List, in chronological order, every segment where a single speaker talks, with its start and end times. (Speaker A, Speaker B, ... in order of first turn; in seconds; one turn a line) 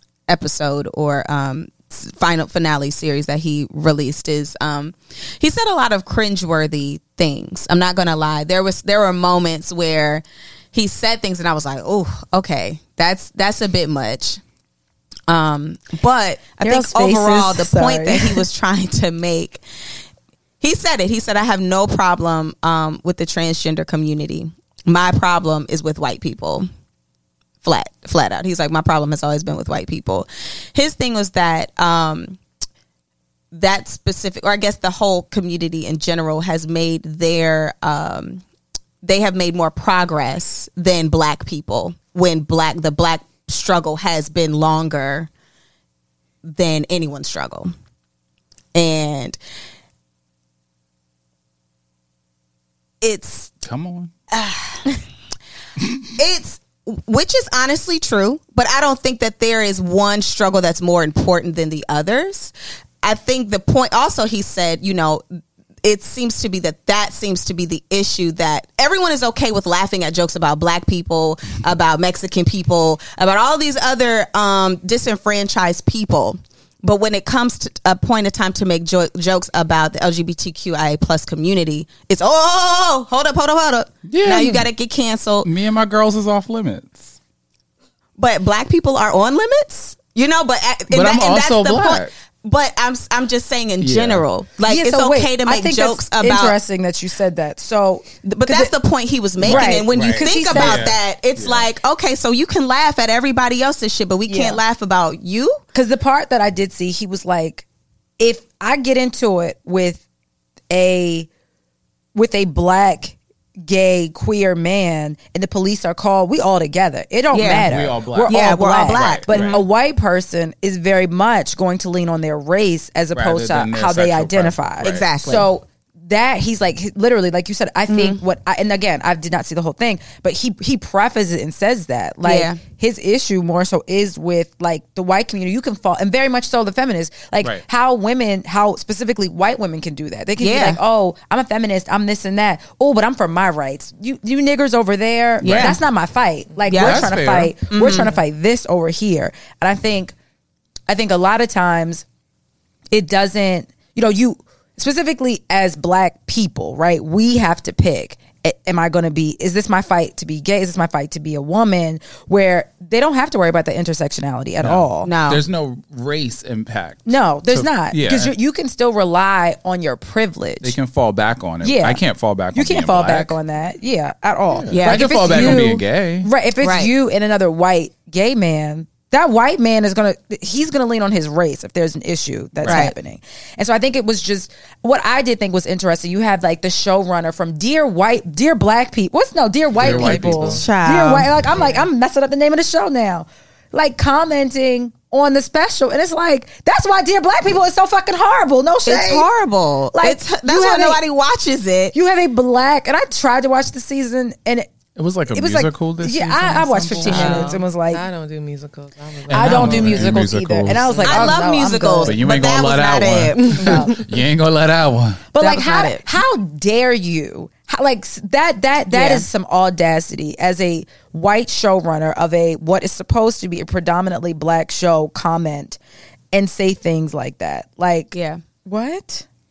Speaker A: 0.3-14.4
Speaker A: 15.3-19.6
Speaker B: 16.6-18.4
Speaker A: 20.6-26.7
Speaker A: 27.6-32.4
Speaker A: 33.5-38.4
Speaker A: 39.0-45.3
Speaker A: 46.4-47.7
Speaker A: 48.7-49.4
Speaker A: 53.0-53.5
Speaker C: 53.6-54.1
Speaker A: 54.3-55.0
Speaker A: 56.2-65.2
Speaker A: 65.8-85.5
Speaker C: 84.0-84.7
Speaker C: 85.4-87.2
Speaker A: 88.2-96.6
Speaker C: 90.9-92.1
Speaker C: 93.8-94.2
Speaker B: 94.7-98.7
Speaker A: 98.2-105.6
Speaker C: 99.4-101.7
Speaker B: 99.4-100.9
Speaker B: 104.2-104.6
Speaker B: 105.7-107.6
Speaker B: 108.2-110.0
Speaker B: 110.7-111.3
Speaker B: 112.1-150.1
Speaker A: 117.3-117.7
Speaker C: 117.4-119.6
Speaker A: 118.2-119.7
Speaker C: 123.1-125.1
Speaker A: 124.8-125.5
Speaker A: 127.9-128.2
Speaker A: 132.2-132.6
Speaker A: 140.4-140.8
Speaker C: 145.4-145.8
Speaker A: 145.4-145.8
Speaker A: 146.7-147.1
Speaker C: 146.7-147.5
Speaker A: 147.7-148.2
Speaker B: 150.9-152.0
Speaker B: 152.9-165.1
Speaker C: 164.6-168.3
Speaker A: 165.0-165.4
Speaker B: 167.1-170.8
Speaker C: 170.6-173.4
Speaker B: 171.6-199.3
Speaker C: 174.5-176.3
Speaker A: 174.7-175.6
Speaker A: 176.6-176.9
Speaker C: 182.6-182.9
Speaker A: 182.6-182.9
Speaker C: 189.8-190.6
Speaker D: 189.8-190.6
Speaker A: 190.5-191.3
Speaker A: 198.8-201.9
Speaker B: 199.9-201.0
Speaker B: 201.9-204.7
Speaker C: 204.9-207.5
Speaker B: 205.3-208.0
Speaker D: 207.1-210.2
Speaker A: 207.1-207.6
Speaker C: 209.3-211.4
Speaker B: 209.3-212.2
Speaker D: 210.8-211.2
Speaker A: 211.0-213.8
Speaker C: 212.0-215.3
Speaker B: 213.6-214.0
Speaker B: 215.3-225.8
Speaker A: 215.4-216.1
Speaker A: 218.9-219.3
Speaker B: 226.3-228.1
Speaker A: 228.1-228.4
Speaker B: 228.7-229.2